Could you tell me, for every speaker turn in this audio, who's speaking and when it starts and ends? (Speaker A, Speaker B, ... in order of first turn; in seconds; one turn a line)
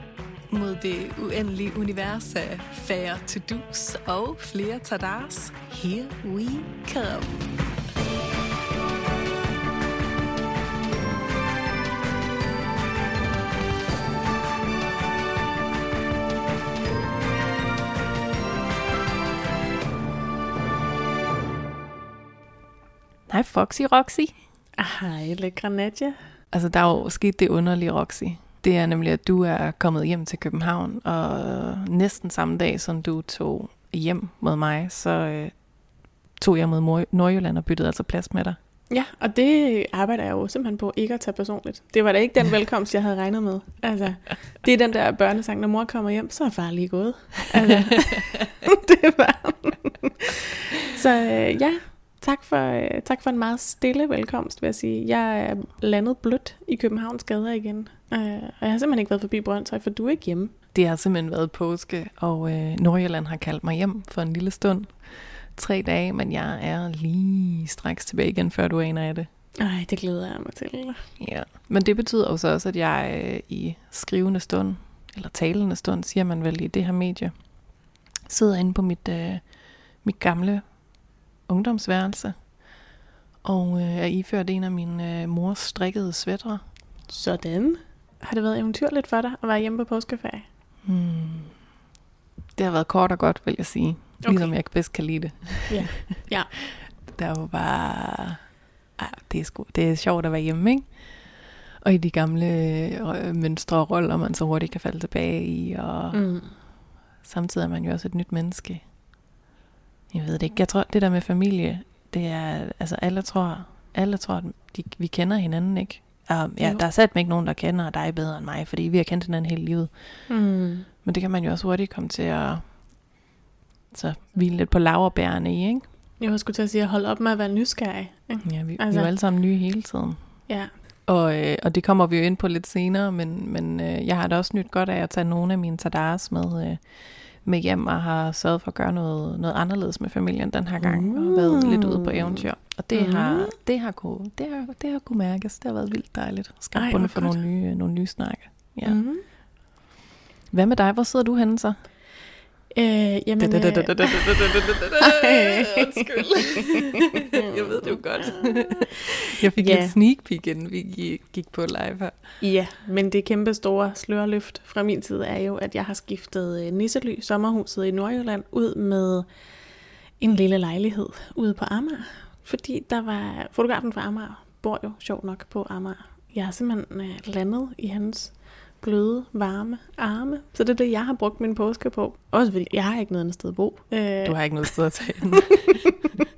Speaker A: 0.5-7.5
Speaker A: 23.3-24.3
Speaker B: 24.8-26.2
Speaker A: 26.5-35.6
Speaker A: 36.4-38.6
Speaker B: 38.9-60.5
Speaker A: 60.7-69.3
Speaker B: 69.6-71.1
Speaker A: 71.2-77.3
Speaker A: 78.3-80.6
Speaker A: 81.5-82.5
Speaker A: 83.4-86.6
Speaker B: 87.1-90.5
Speaker A: 90.8-91.6
Speaker A: 92.5-96.0
Speaker B: 94.2-94.6
Speaker B: 95.7-96.5
Speaker A: 96.6-106.3
Speaker B: 106.1-106.6
Speaker A: 107.2-108.9
Speaker A: 110.1-120.3
Speaker B: 120.3-120.9
Speaker A: 121.0-122.7
Speaker A: 123.9-125.8
Speaker B: 126.2-129.1
Speaker A: 128.4-130.5
Speaker A: 131.1-149.0
Speaker B: 140.8-143.6
Speaker B: 146.8-147.4
Speaker B: 148.8-149.3
Speaker A: 150.5-151.9
Speaker B: 152.7-160.0
Speaker A: 153.4-162.4
Speaker B: 162.4-169.3
Speaker B: 170.2-185.1
Speaker A: 184.2-185.9